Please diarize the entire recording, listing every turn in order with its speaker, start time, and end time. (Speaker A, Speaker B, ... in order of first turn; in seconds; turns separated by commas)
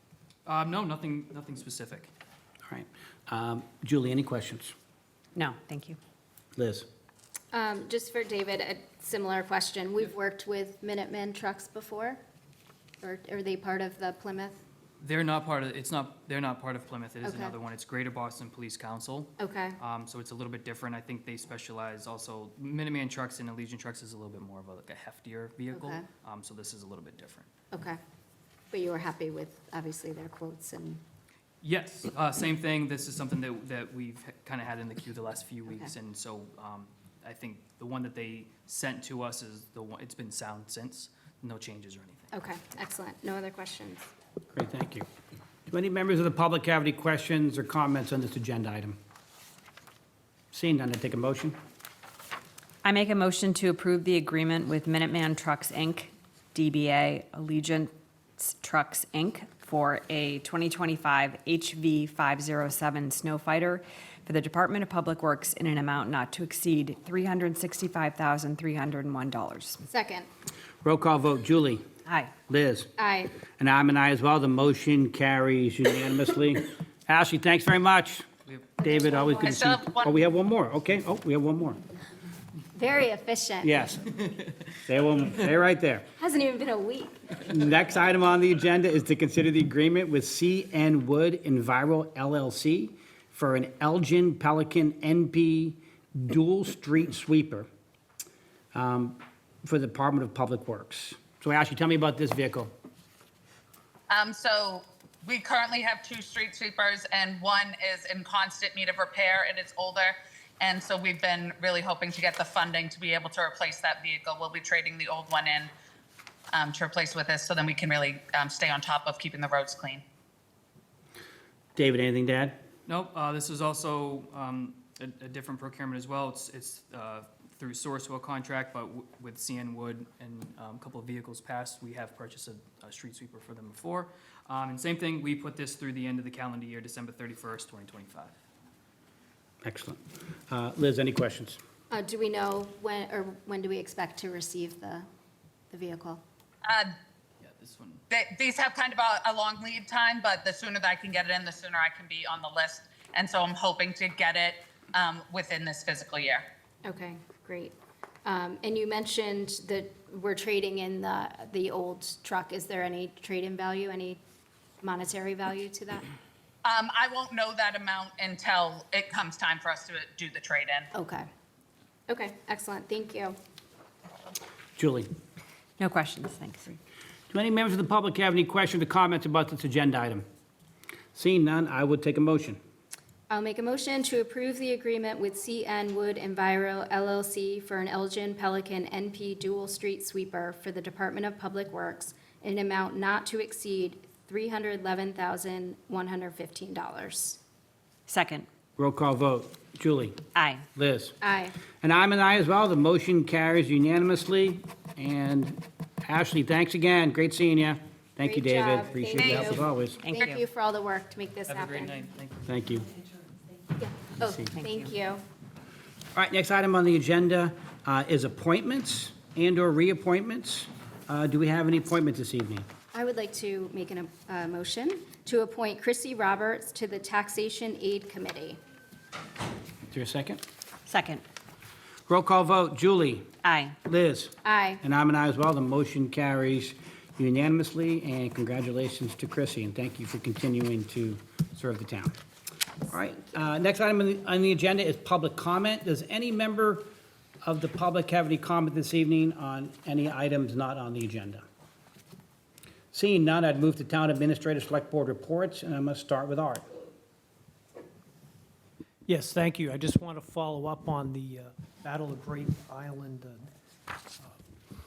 Speaker A: 0.5-2.1, Speaker B: 2.7-4.7, Speaker C: 5.3-6.0, Speaker B: 6.6-6.8, Speaker D: 7.5-12.2, Speaker D: 13.0-14.6, Speaker A: 15.0-27.5, Speaker D: 17.2-17.5, Speaker D: 19.4-19.8, Speaker D: 25.7-26.0, Speaker D: 27.7-28.0, Speaker D: 28.7-31.0, Speaker A: 31.6-42.3, Speaker D: 42.3-44.1, Speaker B: 44.5-45.1, Speaker B: 45.7-49.0, Speaker B: 50.5-51.6, Speaker C: 52.8-69.8, Speaker D: 69.9-70.3, Speaker B: 70.8-71.8, Speaker C: 72.1-72.3, Speaker B: 72.5-72.9, Speaker D: 73.0-73.3, Speaker B: 73.5-78.2, Speaker B: 78.8-81.8, Speaker D: 78.8-79.6, Speaker E: 79.4-80.2, Speaker D: 82.7-83.7, Speaker B: 83.6-84.0, Speaker B: 84.9-86.1, Speaker D: 86.2-87.2, Speaker B: 87.4-97.7, Speaker B: 98.7-102.7, Speaker E: 104.1-115.7, Speaker E: 116.5-120.0, Speaker B: 121.8-122.6, Speaker A: 122.9-138.3, Speaker B: 139.6-141.6, Speaker D: 141.9-145.1, Speaker D: 145.7-146.2, Speaker E: 146.6-146.9, Speaker A: 147.4-148.0, Speaker E: 148.1-156.4, Speaker D: 156.8-164.2, Speaker D: 164.8-166.1, Speaker E: 166.6-170.9, Speaker D: 170.9-171.3, Speaker D: 172.1-173.3, Speaker B: 174.8-175.1, Speaker C: 175.8-176.8, Speaker B: 177.3-180.2, Speaker B: 181.1-182.6, Speaker D: 183.3-197.4, Speaker C: 198.1-198.5, Speaker B: 198.8-200.2, Speaker C: 200.3-200.6, Speaker B: 200.7-201.2, Speaker D: 201.2-201.5, Speaker B: 201.8-210.0, Speaker D: 208.2-211.9, Speaker E: 209.2-209.5, Speaker C: 210.0-210.4, Speaker A: 211.5-212.5, Speaker B: 212.4-212.9, Speaker D: 213.8-215.2, Speaker B: 214.2-214.5, Speaker B: 216.1-222.7, Speaker D: 222.9-228.6, Speaker B: 229.9-230.4, Speaker C: 230.9-231.2, Speaker B: 232.1-233.3, Speaker C: 233.4-233.8, Speaker B: 233.8-242.2, Speaker D: 234.4-234.8, Speaker B: 242.9-246.9, Speaker B: 247.4-251.4, Speaker B: 252.9-256.6, Speaker F: 259.1-263.4